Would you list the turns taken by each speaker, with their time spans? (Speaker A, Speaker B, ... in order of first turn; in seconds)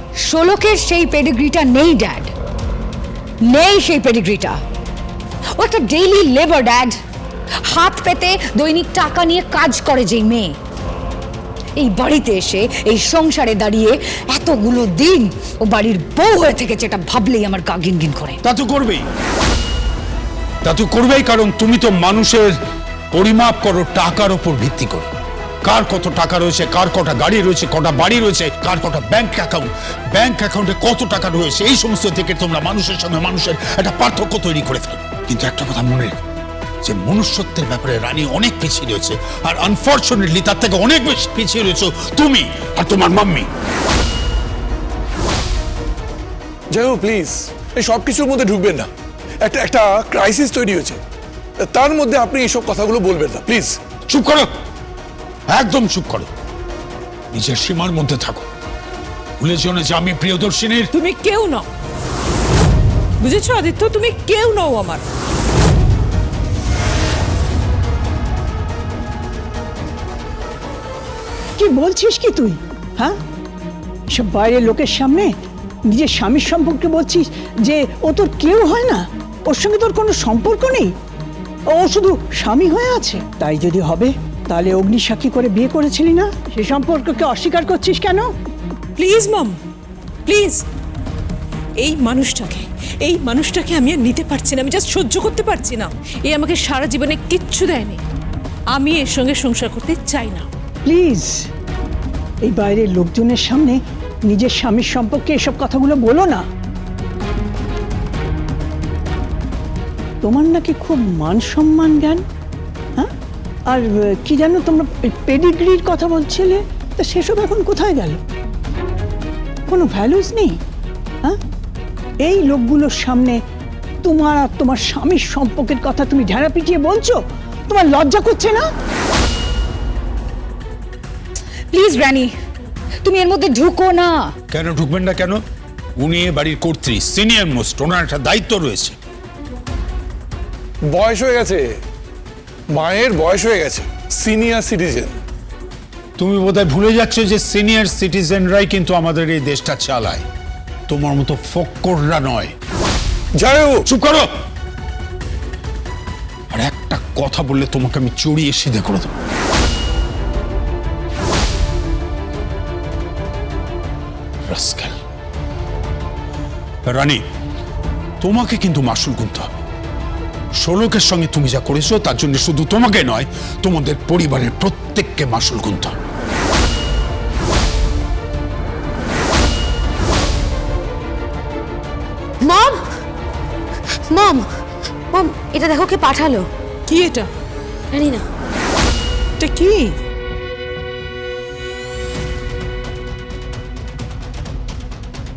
Speaker A: 0.2-2.3, 3.4-4.6, 5.5-7.0, 7.6-10.5, 11.8-18.4, 131.7-132.3, 133.0-134.3
Speaker B: 18.4-19.0, 20.6-22.6, 23.1-25.1, 25.6-36.2, 36.8-43.5, 54.1-54.5, 55.5-56.3, 57.3-58.5, 59.4-60.9, 134.5-135.4, 136.0-138.9, 146.2-150.2, 150.9-152.5, 153.8-154.3, 156.5-159.1, 164.5-164.9, 166.8-167.2, 168.2-169.5, 170.6-176.0
Speaker C: 46.7-48.9, 49.4-51.0, 51.6-53.8, 140.9-141.8, 142.7-145.2, 153.4-153.8
Speaker D: 60.9-61.6, 63.2-65.0, 89.0-89.5, 90.2-90.6, 91.8-98.0, 98.7-100.5, 186.9-187.3, 189.4-189.9
Speaker E: 71.6-73.2, 74.1-75.3, 75.9-80.9, 81.7-88.3, 100.8-101.5, 102.4-106.4, 110.2-112.2, 113.7-118.2, 119.7-120.6, 122.2-123.4, 124.0-128.7
Speaker F: 182.4-182.9, 184.1-184.5, 185.1-186.5, 187.9-188.3